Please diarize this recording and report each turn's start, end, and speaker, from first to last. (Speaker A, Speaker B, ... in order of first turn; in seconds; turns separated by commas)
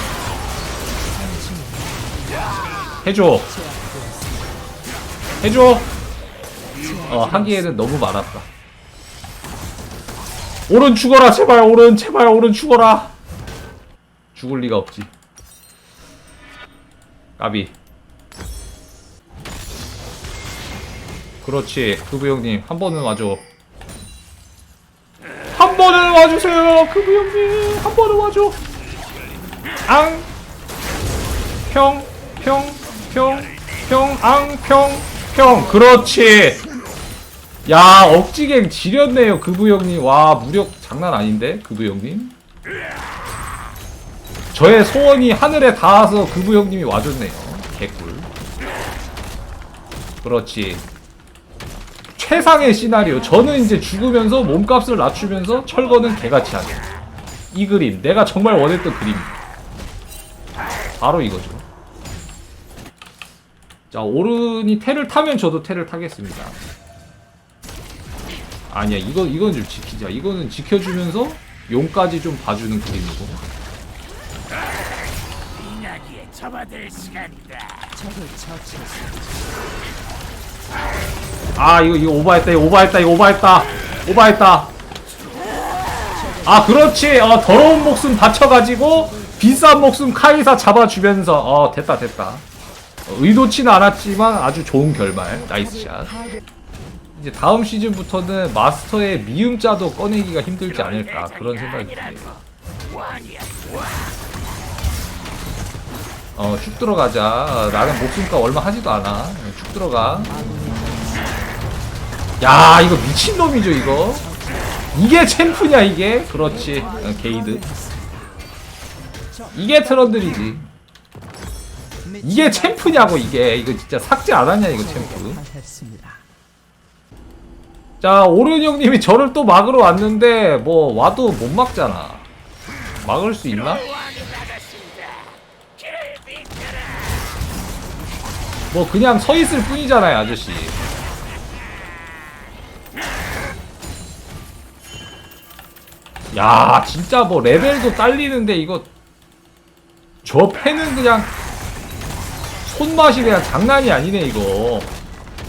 Speaker A: 1.1-4.7, Speaker B: 3.0-3.5, Speaker B: 5.4-5.9, Speaker A: 6.8-7.9, Speaker B: 7.1-8.5, Speaker B: 10.7-13.1, Speaker B: 14.3-15.1, Speaker B: 17.4-17.8, Speaker B: 21.4-23.4, Speaker B: 25.6-28.6, Speaker B: 29.9-30.3, Speaker B: 31.7-36.6, Speaker C: 33.5-34.1, Speaker B: 37.7-42.4, Speaker B: 44.5-48.3, Speaker B: 50.2-50.9, Speaker B: 52.1-56.9, Speaker A: 52.3-54.2, Speaker C: 55.6-57.0, Speaker B: 57.5-59.4, Speaker B: 61.0-61.6, Speaker B: 63.9-66.6, Speaker B: 68.7-73.4, Speaker C: 75.5-78.0, Speaker A: 77.9-79.6, Speaker B: 81.6-84.7, Speaker C: 85.1-86.2, Speaker A: 86.1-87.3, Speaker B: 86.5-92.5, Speaker A: 88.6-90.3, Speaker B: 93.1-96.2, Speaker A: 95.3-96.4, Speaker B: 97.2-102.4, Speaker C: 100.6-104.3, Speaker B: 106.4-110.3, Speaker A: 110.3-111.6, Speaker B: 112.4-114.3, Speaker A: 113.7-115.0, Speaker B: 114.9-117.6, Speaker A: 116.4-118.4, Speaker A: 119.3-120.5, Speaker B: 119.5-120.7, Speaker A: 122.0-123.5, Speaker B: 122.2-125.4, Speaker A: 124.7-126.2, Speaker B: 128.0-132.3, Speaker B: 133.0-133.8, Speaker C: 133.5-137.3, Speaker B: 138.7-140.8, Speaker B: 146.3-148.9, Speaker B: 150.2-151.3, Speaker B: 152.7-154.9